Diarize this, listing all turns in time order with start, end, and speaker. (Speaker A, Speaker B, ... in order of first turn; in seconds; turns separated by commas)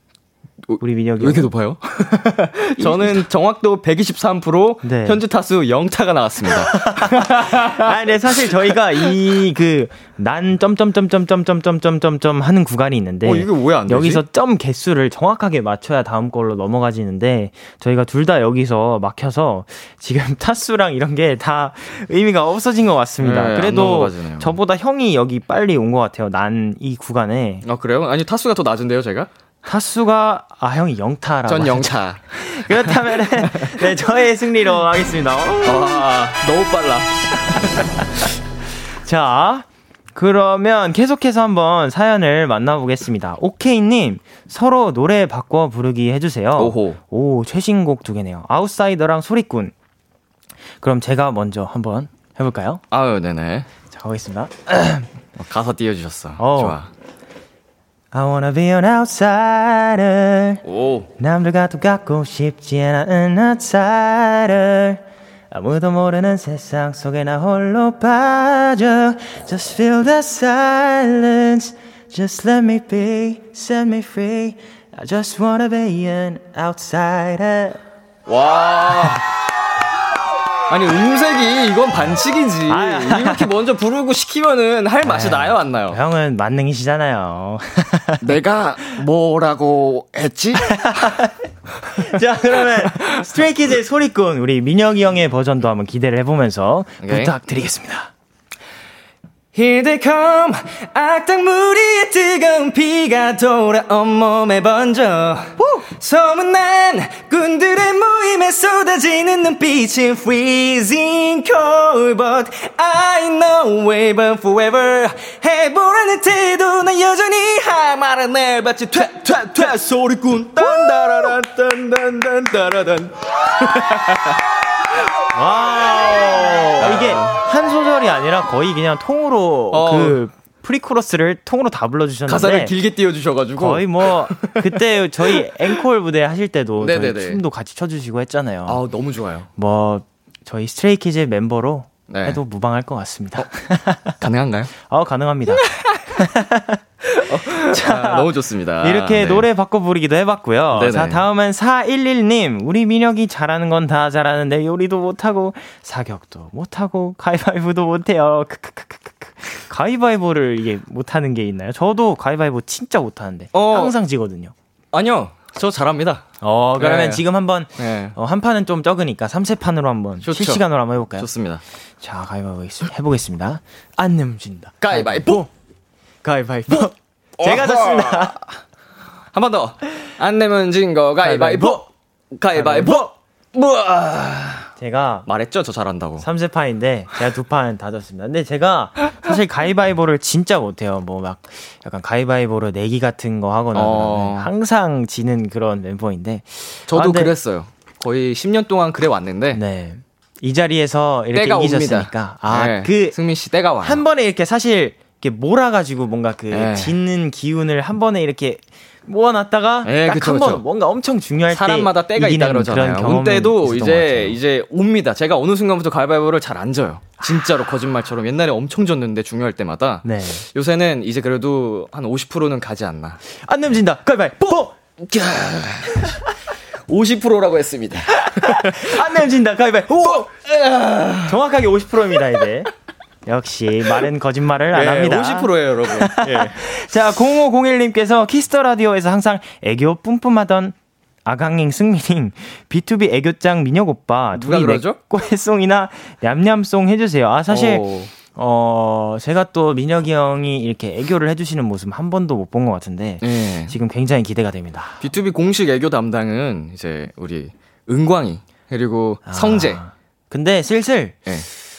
Speaker A: 0.7-7.9, Speaker B: 0.8-1.5, Speaker B: 2.8-3.2, Speaker B: 4.8-5.2, Speaker B: 6.7-27.6, Speaker A: 13.2-14.2, Speaker A: 23.2-24.5, Speaker A: 27.6-29.3, Speaker B: 29.6-36.0, Speaker A: 31.4-34.0, Speaker A: 35.6-38.0, Speaker B: 39.0-49.7, Speaker A: 46.6-47.0, Speaker B: 50.8-52.8, Speaker A: 52.9-53.7, Speaker B: 53.9-55.1, Speaker A: 55.4-56.9, Speaker B: 56.4-56.8, Speaker B: 58.1-60.6, Speaker A: 60.6-61.1, Speaker B: 61.2-77.8, Speaker A: 78.3-79.2, Speaker A: 80.7-86.0, Speaker B: 82.7-83.5, Speaker B: 85.0-88.3, Speaker A: 88.2-91.2, Speaker B: 90.7-91.3, Speaker B: 91.9-98.1, Speaker A: 92.0-93.2, Speaker A: 97.0-97.3, Speaker A: 99.5-124.4, Speaker B: 125.3-132.7, Speaker A: 126.8-127.4, Speaker A: 129.7-130.2, Speaker A: 132.3-134.7, Speaker B: 133.6-138.8, Speaker A: 135.2-135.7, Speaker A: 136.8-137.4, Speaker A: 138.7-139.5, Speaker B: 139.6-144.2, Speaker A: 142.1-142.4, Speaker A: 144.2-144.7, Speaker B: 144.8-148.3, Speaker A: 145.7-146.0, Speaker A: 147.1-149.5, Speaker B: 148.8-164.5, Speaker A: 150.7-151.2, Speaker A: 163.5-163.9, Speaker A: 164.9-167.2, Speaker B: 166.4-171.3, Speaker A: 167.8-168.2, Speaker A: 170.2-170.6, Speaker A: 171.2-171.6, Speaker B: 172.0-175.5, Speaker A: 174.8-175.4, Speaker B: 176.2-178.4, Speaker A: 176.7-178.4, Speaker A: 179.3-184.7, Speaker B: 181.2-181.8, Speaker B: 182.5-183.1, Speaker B: 184.8-185.3, Speaker A: 185.2-186.2, Speaker B: 186.2-197.3, Speaker A: 193.7-194.5, Speaker A: 196.9-199.6, Speaker B: 199.5-203.2, Speaker A: 201.3-204.0, Speaker B: 203.8-214.4, Speaker A: 206.5-207.0, Speaker A: 209.8-210.6, Speaker A: 211.5-223.2, Speaker B: 220.0-220.4, Speaker B: 223.3-224.8, Speaker A: 225.0-226.2, Speaker A: 226.8-229.1, Speaker B: 228.2-230.3, Speaker A: 229.9-231.4, Speaker B: 231.2-232.7, Speaker B: 233.2-240.7, Speaker A: 234.7-236.6, Speaker B: 241.2-255.0, Speaker A: 244.3-245.0, Speaker A: 247.5-248.1, Speaker A: 253.2-253.7, Speaker A: 255.0-259.8, Speaker B: 259.3-261.2